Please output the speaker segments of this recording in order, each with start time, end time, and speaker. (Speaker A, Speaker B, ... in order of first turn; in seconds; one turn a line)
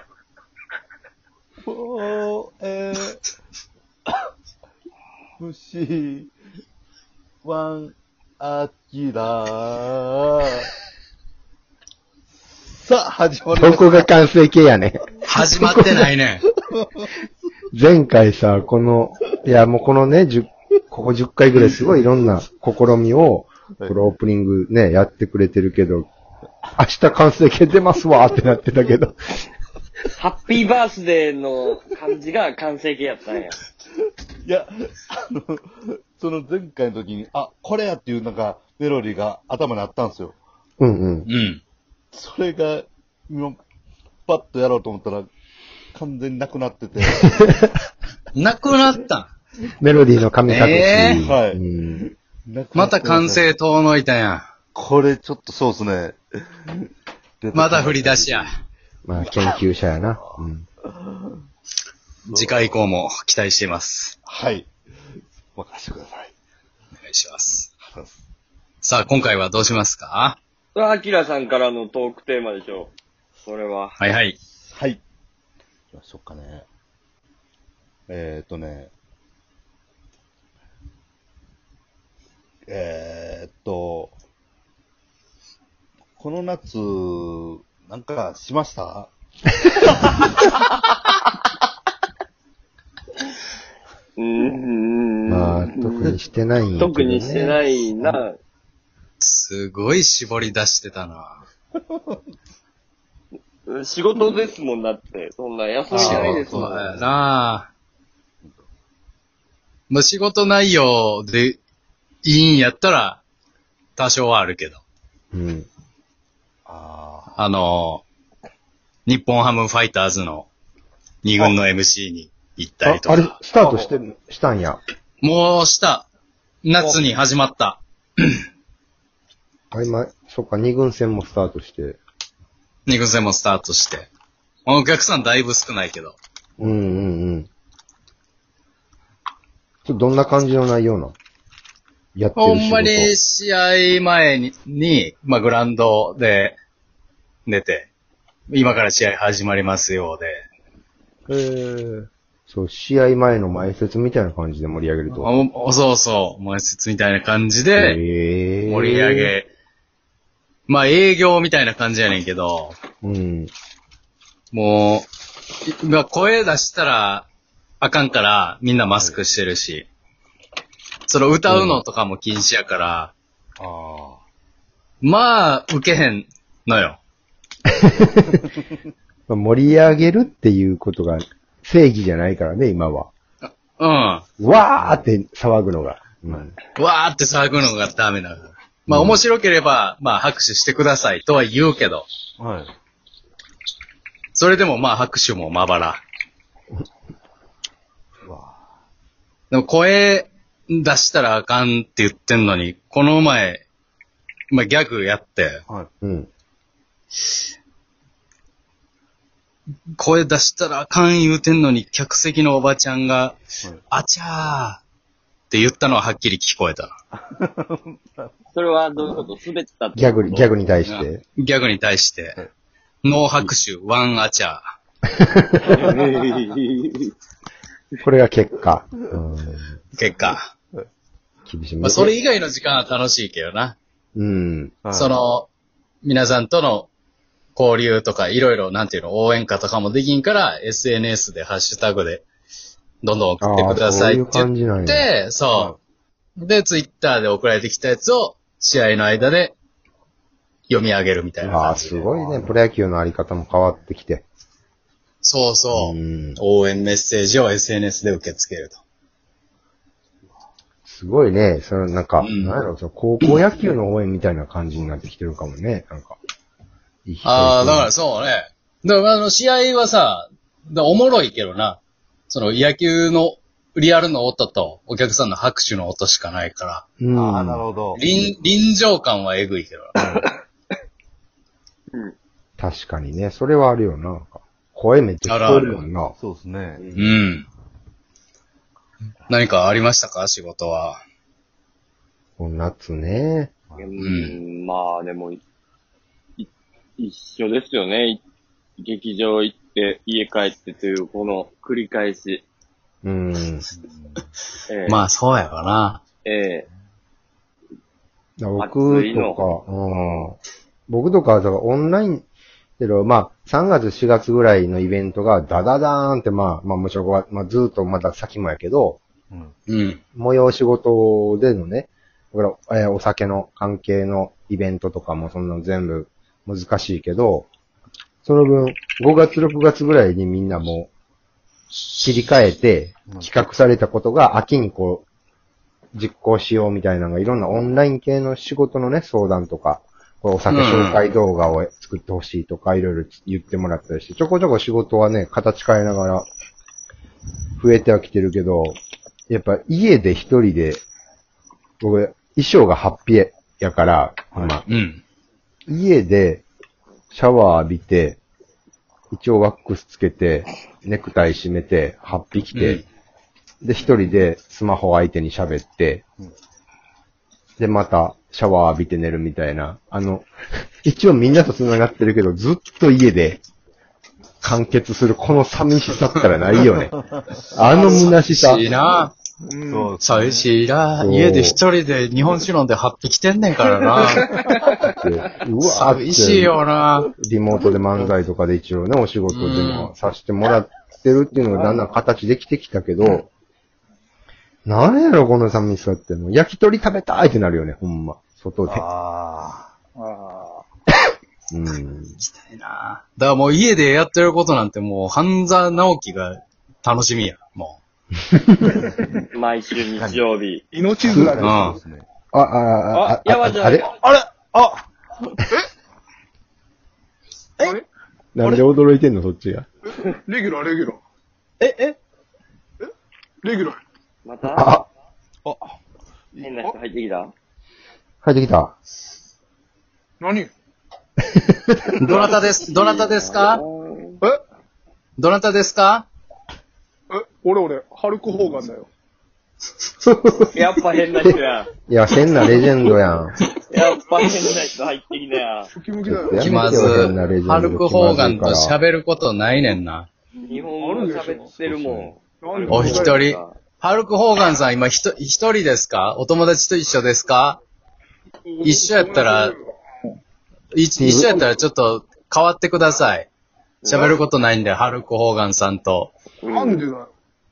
Speaker A: 1.6-3.2
Speaker A: 5.4-6.3
Speaker A: 7.4-10.7
Speaker A: 12.6-14.1
Speaker B: 13.6-16.0
Speaker C: 15.3-16.4
Speaker A: 16.6-17.1
Speaker B: 17.7-26.1
Speaker A: 21.6-21.9
Speaker B: 26.8-29.2
Speaker D: 30.1-33.5
Speaker A: 34.4-40.4
Speaker B: 40.8-41.3
Speaker C: 41.2-41.6
Speaker A: 42.1-43.6
Speaker A: 44.2-45.3
Speaker A: 45.9-47.4
Speaker B: 47.2-47.7
Speaker C: 48.3-49.3
Speaker B: 49.8-52.0
Speaker C: 50.5-51.2
Speaker A: 51.2-53.5
Speaker C: 52.7-54.5
Speaker A: 54.7-56.9
Speaker A: 57.4-58.5
Speaker C: 57.5-58.5
Speaker B: 59.0-60.6
Speaker A: 59.1-61.4
Speaker A: 62.3-62.7
Speaker C: 62.3-64.2
Speaker A: 64.2-64.7
Speaker A: 65.5-66.3
Speaker C: 67.0-67.7
Speaker A: 67.8-68.2
Speaker C: 68.8-70.4
Speaker D: 70.7-72.9
Speaker D: 73.4-74.0
Speaker C: 74.0-74.3
Speaker A: 74.7-75.0
Speaker A: 75.9-76.7
Speaker A: 78.1-78.9
Speaker A: 82.7-84.1
Speaker A: 86.2-89.1
Speaker D: 94.2-96.1
Speaker B: 95.3-98.2
Speaker D: 96.8-98.4
Speaker C: 99.2-101.4
Speaker A: 101.7-102.2
Speaker D: 103.7-106.8
Speaker C: 105.9-107.7
Speaker A: 105.9-107.2
Speaker C: 109.9-111.6
Speaker C: 112.2-113.2
Speaker C: 114.0-114.8
Speaker B: 115.3-115.7
Speaker A: 116.7-117.4
Speaker C: 117.3-118.0
Speaker C: 119.0-120.5
Speaker C: 121.2-123.3
Speaker B: 122.8-124.8
Speaker C: 125.2-126.1
Speaker C: 126.6-128.4
Speaker B: 129.7-132.0
Speaker C: 132.9-134.1
Speaker C: 134.7-136.2
Speaker A: 136.6-136.8
Speaker B: 136.6-137.5
Speaker B: 139.8-141.1
Speaker B: 142.1-143.1
Speaker C: 142.3-146.6
Speaker C: 147.4-147.9
Speaker C: 148.5-150.3
Speaker B: 151.3-155.3
Speaker C: 155.1-158.0
Speaker B: 157.8-159.3
Speaker C: 158.6-159.5
Speaker C: 160.7-162.8
Speaker B: 163.0-163.5
Speaker C: 164.5-165.1
Speaker C: 165.6-167.2
Speaker C: 167.8-169.9
Speaker A: 168.9-169.2
Speaker C: 171.1-173.1
Speaker B: 171.5-171.8
Speaker A: 173.6-174.2
Speaker C: 175.0-177.0
Speaker B: 177.8-178.4
Speaker B: 179.3-183.1
Speaker C: 183.4-184.2
Speaker B: 184.4-186.5
Speaker C: 186.8-192.1
Speaker B: 188.9-189.2
Speaker A: 192.4-192.7
Speaker C: 194.3-196.0
Speaker A: 198.2-198.6
Speaker C: 199.5-203.6
Speaker C: 204.5-205.6
Speaker B: 206.0-206.3
Speaker C: 210.0-214.8
Speaker C: 215.5-216.9
Speaker A: 217.1-218.3
Speaker D: 218.5-220.5
Speaker B: 219.9-221.2
Speaker C: 220.8-222.4
Speaker C: 223.0-224.6
Speaker B: 225.2-225.9
Speaker D: 225.6-227.1
Speaker B: 228.0-229.8
Speaker C: 229.9-230.5
Speaker B: 231.5-232.1
Speaker C: 231.8-233.7
Speaker B: 234.1-234.7
Speaker A: 234.8-235.1
Speaker C: 234.9-235.5
Speaker C: 236.0-236.9
Speaker C: 237.6-242.2
Speaker C: 243.0-245.7
Speaker B: 243.4-245.1
Speaker A: 245.5-245.8
Speaker C: 246.4-249.5
Speaker C: 250.7-252.2
Speaker B: 251.4-254.2
Speaker C: 255.2-258.8
Speaker B: 255.7-256.4
Speaker B: 260.8-266.1
Speaker C: 262.2-262.6
Speaker B: 267.1-267.9
Speaker C: 267.2-276.8
Speaker B: 277.0-277.6
Speaker A: 277.1-278.0
Speaker C: 277.9-280.2
Speaker B: 282.6-286.1
Speaker C: 285.3-285.8
Speaker A: 286.2-286.9
Speaker B: 286.8-287.2
Speaker C: 286.9-287.4
Speaker C: 289.3-291.0
Speaker B: 292.4-293.5
Speaker D: 293.8-295.4
Speaker C: 294.0-294.4
Speaker D: 296.4-298.2
Speaker D: 298.8-302.4
Speaker B: 303.0-303.6
Speaker A: 303.7-304.3
Speaker D: 304.7-305.0
Speaker C: 304.9-306.0
Speaker D: 306.2-306.6
Speaker B: 308.4-312.2
Speaker D: 308.6-309.5
Speaker B: 312.8-319.0
Speaker C: 319.7-320.0
Speaker B: 320.1-327.5
Speaker B: 328.2-330.9
Speaker C: 331.8-332.0
Speaker B: 332.0-335.1
Speaker B: 335.9-346.2
Speaker C: 340.5-341.1
Speaker B: 347.6-348.8
Speaker B: 349.3-350.8
Speaker B: 351.8-354.6
Speaker A: 354.3-354.6
Speaker C: 354.6-355.0
Speaker B: 355.7-356.4
Speaker B: 357.1-358.2
Speaker B: 359.1-362.8
Speaker C: 362.5-362.8
Speaker B: 363.6-366.0
Speaker B: 367.6-370.3
Speaker B: 370.8-373.4
Speaker B: 374.4-376.9
Speaker A: 376.8-377.4
Speaker B: 377.5-378.7
Speaker E: 377.7-378.1
Speaker C: 377.8-379.1
Speaker E: 379.4-379.9
Speaker A: 379.6-380.5
Speaker C: 380.0-384.4
Speaker B: 381.0-381.6
Speaker B: 384.8-386.5
Speaker C: 385.6-387.1
Speaker B: 387.2-393.3
Speaker A: 387.5-388.1
Speaker C: 389.3-389.9
Speaker E: 391.5-391.8
Speaker B: 394.6-398.8
Speaker A: 398.6-399.7
Speaker E: 399.9-400.6
Speaker B: 401.5-402.2
Speaker C: 402.2-407.8
Speaker B: 408.3-408.6
Speaker D: 409.3-410.6
Speaker A: 409.9-410.2
Speaker E: 410.7-411.6
Speaker A: 410.9-412.1
Speaker B: 411.0-411.5
Speaker C: 411.4-411.8
Speaker B: 412.3-413.9
Speaker D: 412.9-413.9
Speaker A: 414.0-415.4
Speaker B: 418.3-419.7
Speaker E: 420.2-421.0
Speaker A: 421.6-422.0
Speaker E: 423.4-423.8
Speaker D: 424.2-424.8
Speaker B: 424.5-424.9
Speaker A: 425.4-425.8
Speaker D: 426.4-427.3
Speaker B: 428.2-428.8
Speaker E: 430.2-430.5
Speaker B: 431.3-431.9
Speaker C: 432.0-433.6
Speaker D: 432.5-434.2
Speaker C: 435.2-436.1
Speaker E: 437.1-438.9
Speaker B: 440.0-440.5
Speaker D: 440.5-441.7
Speaker B: 441.9-443.3
Speaker D: 443.7-445.7
Speaker E: 445.7-447.0
Speaker B: 446.0-448.8
Speaker C: 446.4-450.1
Speaker D: 450.4-453.6
Speaker E: 450.8-451.4
Speaker A: 451.4-452.2
Speaker E: 452.4-453.2
Speaker C: 452.7-457.6
Speaker E: 458.5-459.6
Speaker C: 458.6-459.5
Speaker C: 460.7-463.3
Speaker B: 461.0-461.4
Speaker D: 463.8-464.2
Speaker C: 463.9-466.1
Speaker D: 466.4-466.8
Speaker E: 466.5-467.1